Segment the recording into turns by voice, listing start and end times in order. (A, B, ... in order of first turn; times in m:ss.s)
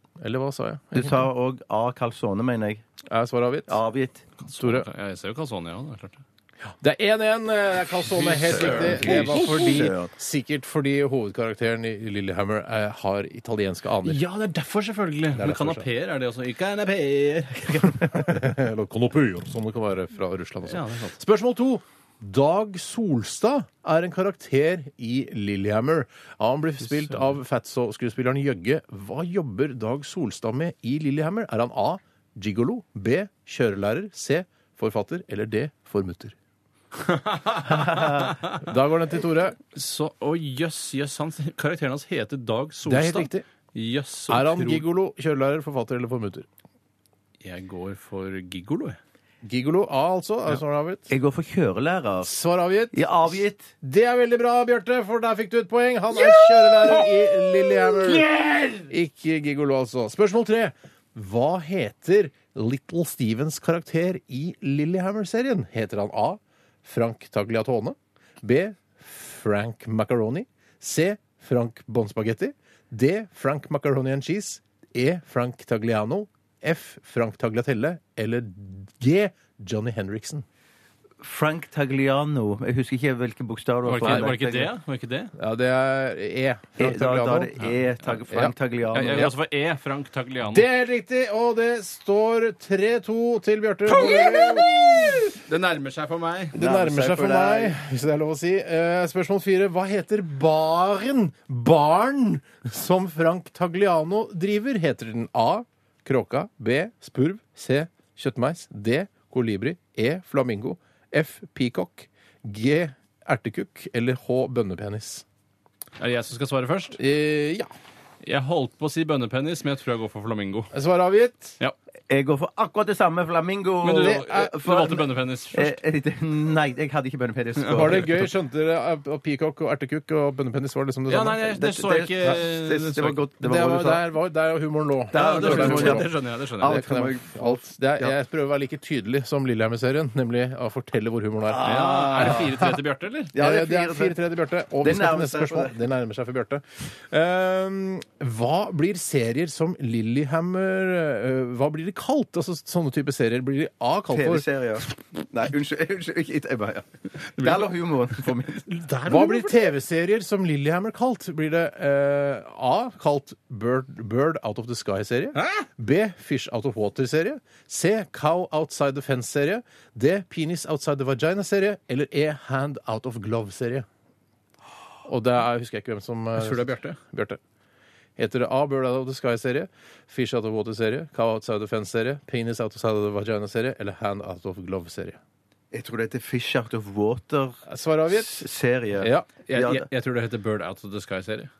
0:00.2-0:01.2 A
0:00.9-0:02.8 B
0:03.1-0:03.8 A
0:03.7-0:04.2 B
0:04.4-0:06.2 C
0:04.6-0:04.8 A
0:06.8-0:14.2 A
0:08.1-0:09.6 C
0:08.5-0:10.1 B
0:14.0-0:17.9 C
0:15.3-0:15.8 A
0:18.0-0:36.3 A
0:20.6-0:21.2 C
0:36.9-0:38.6 C
0:38.5-0:39.6 A
0:39.7-0:44.8 C
0:42.9-0:43.4 A
0:44.3-0:46.5 A
0:47.4-0:49.0 C
0:49.4-0:51.1 A
0:51.1-0:52.4 B
0:52.2-0:58.3 A
0:52.9-0:53.7 B
0:58.1-0:58.9 C
0:58.8-1:20.4 A
1:21.2-1:24.7 B
1:23.9-1:25.3 C
1:24.0-1:24.4 A
1:25.4-1:27.5 A
1:26.8-1:29.3 B
1:27.6-1:28.1 C
1:28.9-1:30.6 C
1:30.5-1:35.2 A
1:33.9-1:36.6 C
1:36.5-1:55.2 A
1:36.5-1:37.8 B
1:56.0-1:57.0 C
1:57.0-1:57.7 A
1:58.2-2:00.7 C
2:00.7-2:01.6 A
2:02.1-2:08.1 B
2:03.8-2:05.8 C
2:04.0-2:04.5 A
2:07.6-2:08.3 C
2:07.7-2:11.6 A
2:11.1-2:13.2 C
2:11.6-2:14.0 B
2:13.4-2:22.5 A
2:15.1-2:18.1 B
2:15.1-2:16.8 C
2:21.5-2:22.7 B
2:21.6-2:23.3 C
2:23.3-2:24.2 B
2:23.3-2:34.4 A
2:24.8-2:25.7 B
2:34.1-2:36.8 B
2:37.4-2:38.4 C
2:37.4-2:38.7 B
2:38.7-2:53.9 A
2:45.3-2:45.6 C
2:55.0-2:57.4 A
2:56.4-2:57.0 C
2:58.2-3:05.2 A
3:05.7-3:09.8 B
3:07.7-3:08.4 A
3:09.0-3:09.5 A
3:09.5-3:11.5 C